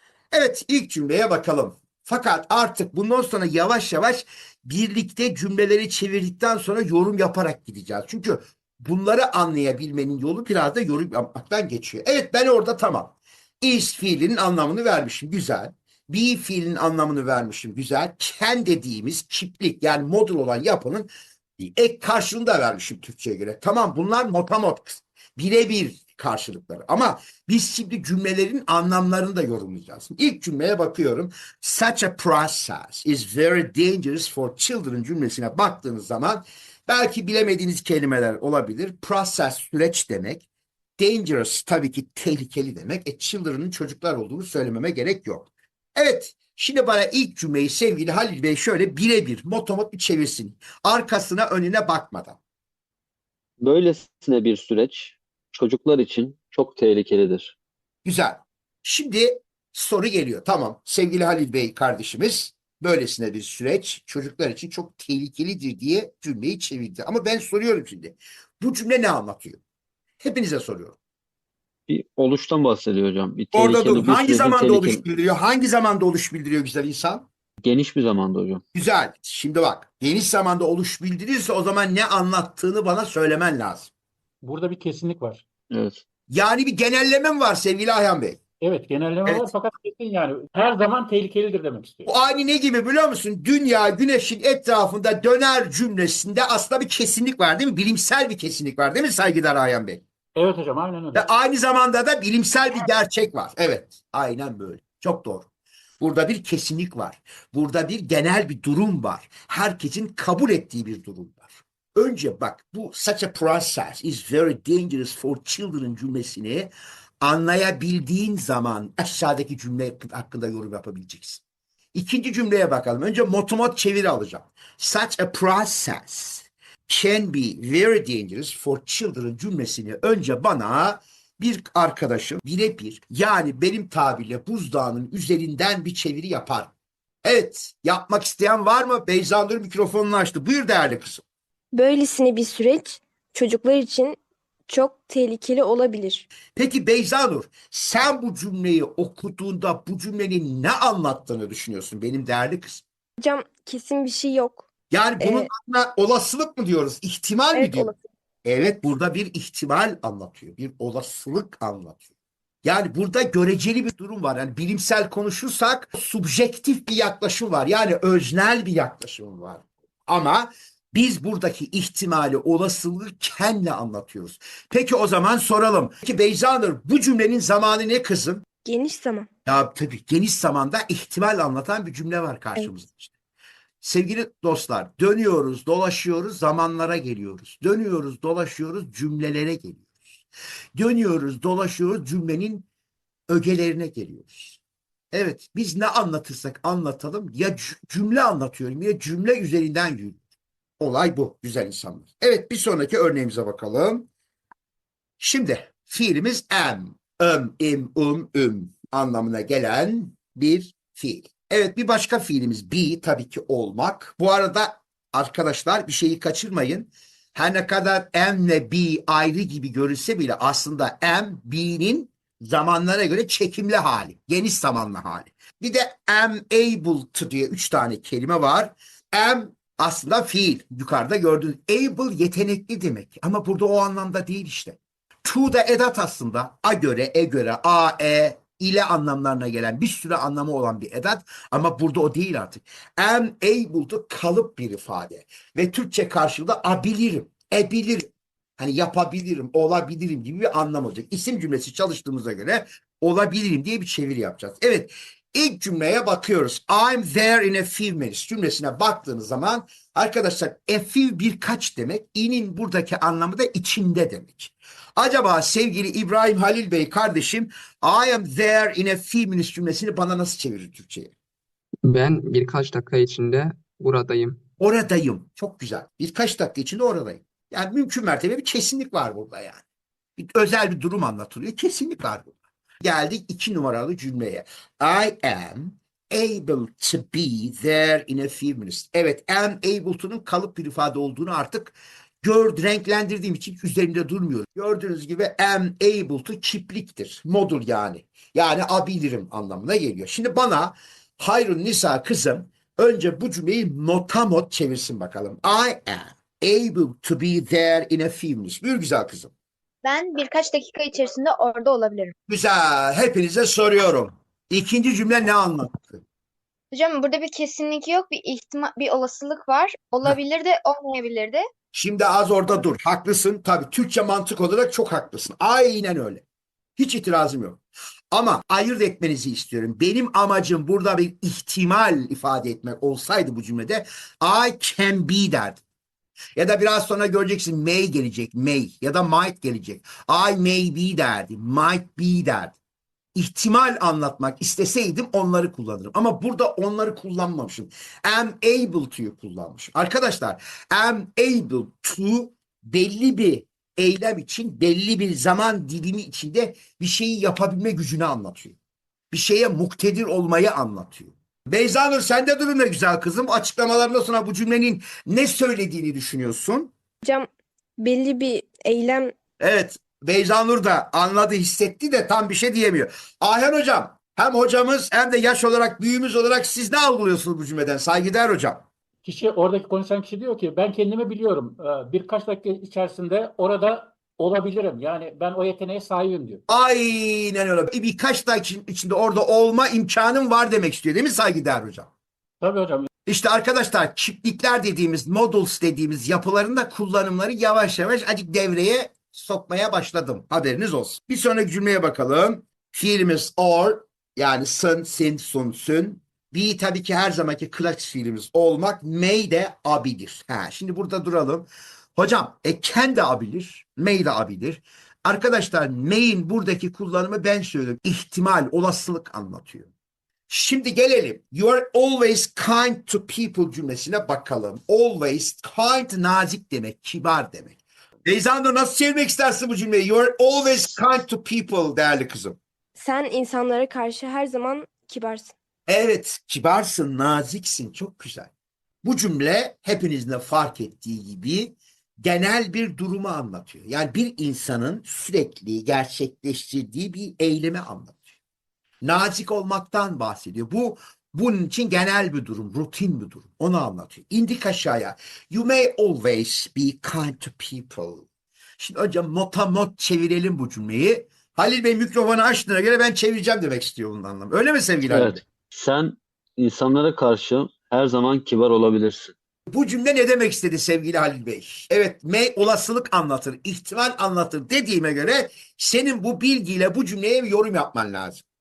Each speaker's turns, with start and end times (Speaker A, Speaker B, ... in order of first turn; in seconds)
Speaker A: 0.3-40.4, 41.0-52.4, 58.0-69.6, 70.2-71.0, 73.5-77.2, 78.7-83.9, 86.3-88.4, 92.0-100.0, 101.1-105.5, 106.0-121.4, 121.9-136.7, 137.2-141.2, 146.5-152.8, 154.9-157.9, 158.4-162.0, 162.6-178.4, 179.4-183.1, 183.8-189.8, 190.7-192.6, 193.3-194.6, 195.1-200.2, 200.8-204.1, 205.2-271.1, 274.6-279.6, 280.2-309.3, 312.3-316.0, 321.7-326.2, 326.8-327.6, 328.1-335.6, 336.4-342.6, 343.1-358.5, 359.1-366.7, 369.4-378.6, 386.5-391.9, 393.1-419.7, 420.3-432.4, 435.7-438.3, 438.8-448.0, 448.8-458.0, 458.6-465.2, 469.5-478.2
Speaker B: 53.6-57.5, 71.9-75.0, 77.6-78.6, 85.7-86.0, 464.9-469.1
Speaker C: 84.4-85.4, 88.6-92.1, 100.3-101.3, 379.0-386.4, 392.4-392.9
Speaker D: 141.7-146.3, 153.2-154.7, 155.2-155.5, 157.5-158.0, 178.6-179.3, 367.0-369.1, 432.8-435.3
Speaker E: 271.9-274.4
Speaker F: 309.8-312.1, 316.7-321.4